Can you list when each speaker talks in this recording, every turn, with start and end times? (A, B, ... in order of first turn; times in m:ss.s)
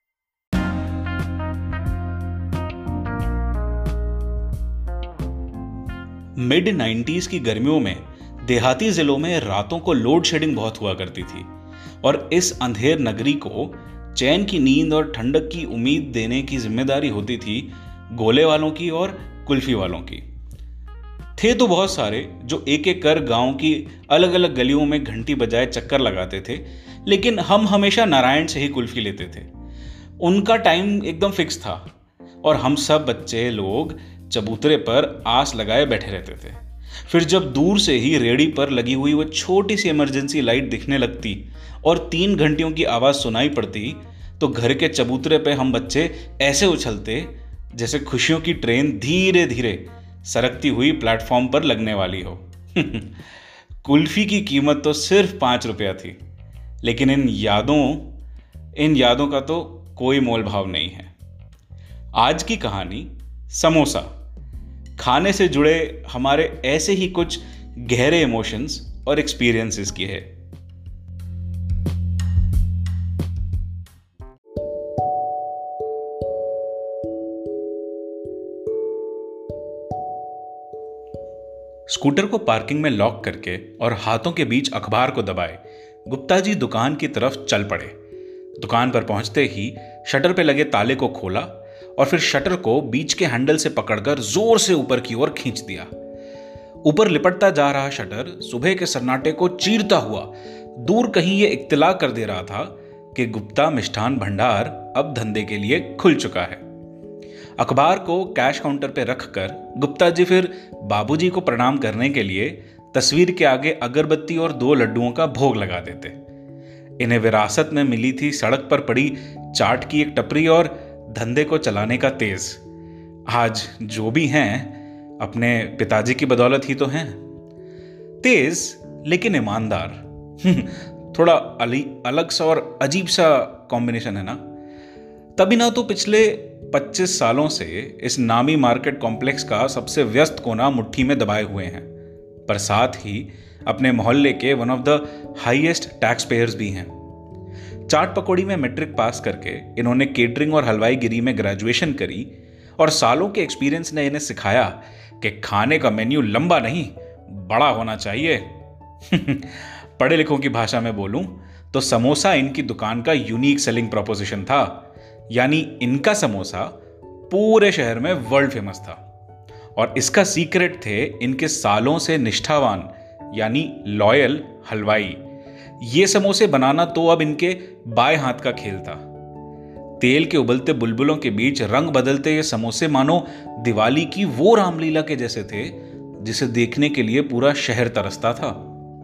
0:06.4-0:11.5 A
0:12.0-0:20.2 A
0:21.4-0:29.5 A
0:30.2-0:31.9 A
0:32.4-0:53.1 A
0:53.8-0:56.2 A
0:56.8-0:58.1 A
0:58.8-1:01.1 A
1:02.2-1:04.1 A
1:05.0-1:10.3 A
1:21.9-1:27.9 A
1:28.6-1:35.9 A
1:36.8-1:46.6 A
1:47.6-1:56.2 A
1:57.0-2:02.6 A
2:03.3-2:07.2 A
2:08.2-2:14.4 A
2:15.4-2:21.9 A
2:22.5-2:26.9 A
2:27.9-2:38.5 A
2:39.0-2:46.8 A
2:47.3-2:49.0 A
2:49.8-2:55.2 A
2:55.8-2:59.0 A
3:00.0-3:08.7 A